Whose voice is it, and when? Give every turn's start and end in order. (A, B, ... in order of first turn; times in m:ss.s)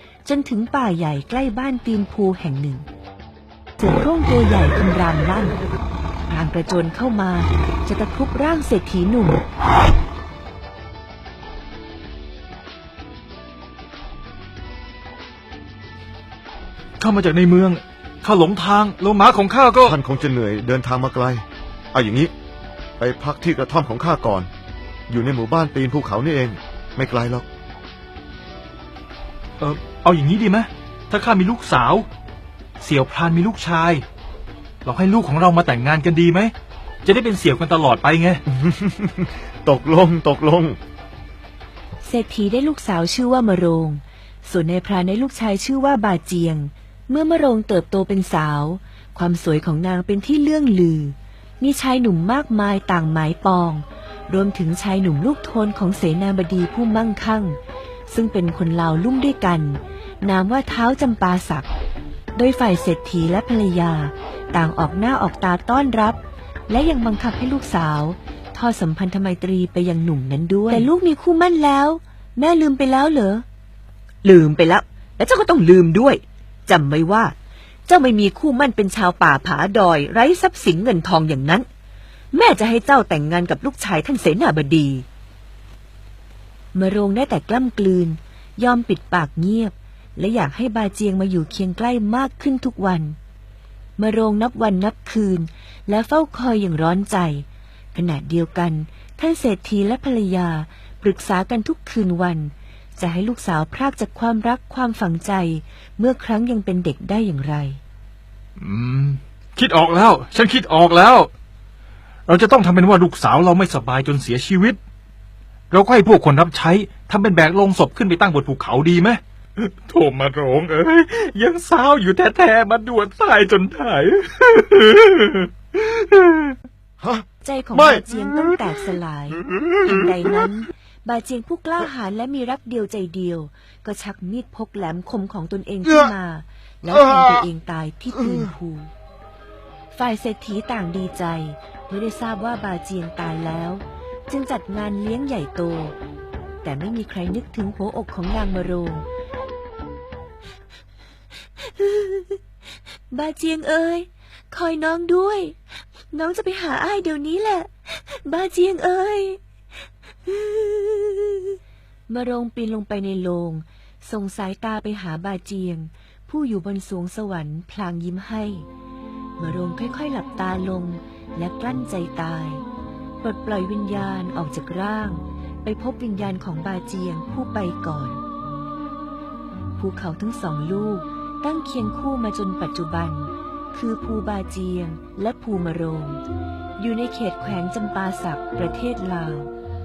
0:00.2-0:02.9 A
0:03.8-0:05.6 A
0:06.3-0:09.4 A
0:17.0-0:20.0 B
0:19.8-0:22.3 C
0:23.0-0:24.5 C
0:25.1-0:27.5 C
0:29.6-0:32.1 B
0:32.8-0:34.0 B
0:34.8-0:36.5 B
0:37.0-0:38.4 B
0:38.5-0:40.8 C
0:42.0-1:01.7 A
1:02.4-1:13.4 A
1:14.2-1:17.3 A
1:17.9-1:21.7 A
1:22.3-1:25.0 A
1:26.7-1:33.2 A
1:34.0-1:47.8 A
1:48.6-1:51.3 B
1:52.3-1:54.8 B
1:55.7-2:06.5 B
2:07.0-2:08.4 C
2:07.4-2:18.9 A
2:17.0-2:17.4 C
2:19.9-2:26.0 A
2:26.6-2:29.1 A
2:31.6-2:32.4 A
2:33.1-2:35.6 A
2:36.1-2:39.4 A
2:40.2-2:48.7 A
2:49.4-2:52.6 A
2:53.2-2:58.2 A
2:59.8-3:06.2 A
3:06.8-3:09.5 A